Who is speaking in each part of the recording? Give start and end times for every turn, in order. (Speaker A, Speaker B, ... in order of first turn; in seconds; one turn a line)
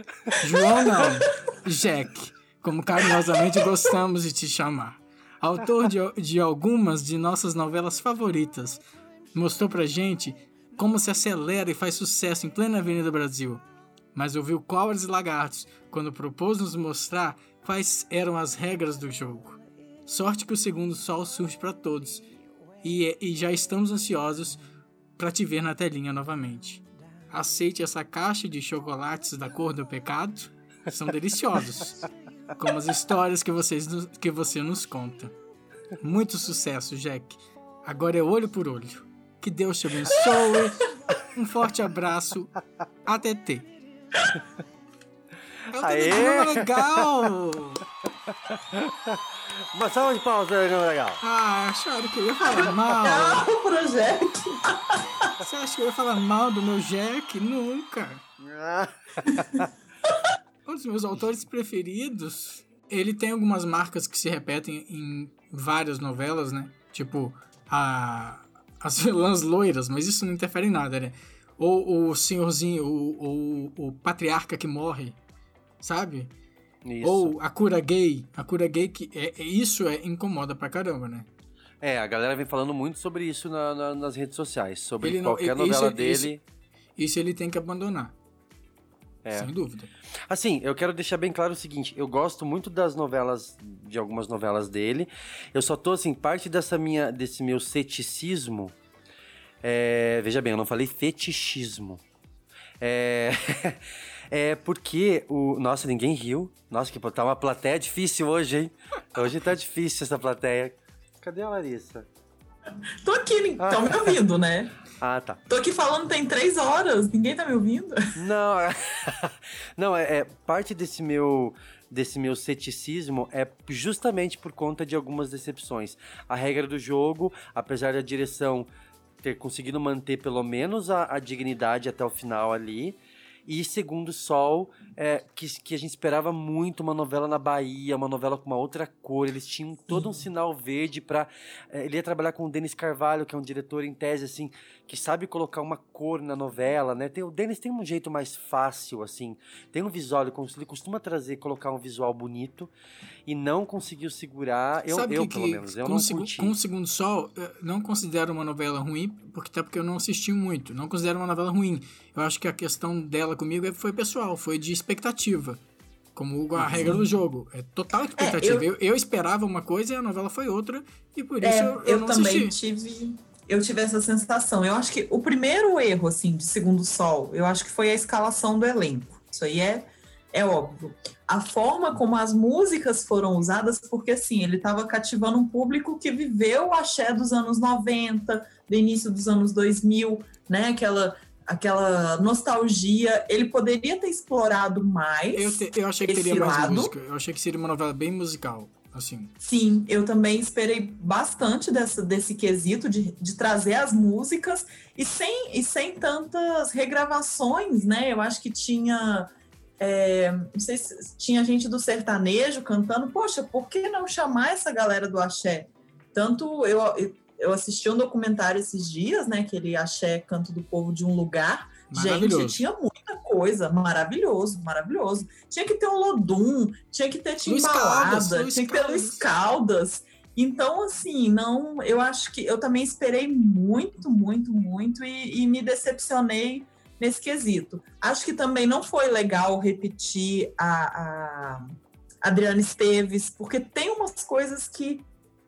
Speaker A: 0.4-8.8
Speaker A: 9.3-13.6
Speaker A: 14.1-22.3
Speaker A: 22.8-24.6
Speaker A: 25.2-32.0
Speaker A: 32.6-35.3
Speaker A: 36.0-42.5
Speaker A: 43.0-43.7
Speaker A: 45.7-47.8
Speaker B: 45.8-47.0
Speaker B: 48.7-49.2
Speaker B: 49.7-51.2
Speaker A: 51.2-53.5
Speaker C: 52.4-54.8
Speaker A: 55.4-58.2
Speaker B: 58.4-59.6
Speaker A: 60.7-75.2
Speaker A: 75.8-76.3
Speaker B: 76.8-77.3
Speaker A: 77.0-81.3
Speaker B: 81.8-86.4
Speaker A: 85.0-86.3
Speaker A: 87.0-88.1
Speaker B: 89.2-89.5
Speaker A: 89.3-89.9
Speaker B: 90.3-98.7
Speaker B: 99.6-102.0
Speaker B: 102.8-103.8
Speaker B: 104.3-112.0
Speaker C: 113.0-114.7
Speaker B: 113.6-114.1
Speaker B: 115.0-115.4
Speaker C: 115.5-118.0
Speaker B: 118.2-128.7
Speaker B: 129.2-152.7
Speaker B: 153.3-156.6
Speaker A: 154.9-165.6
Speaker A: 166.2-172.6
Speaker C: 166.7-167.0
Speaker C: 168.2-168.7
Speaker C: 171.4-196.9
Speaker A: 195.3-199.3
Speaker C: 199.4-209.3
Speaker C: 209.8-245.1
Speaker A: 221.9-222.6
Speaker A: 227.4-229.3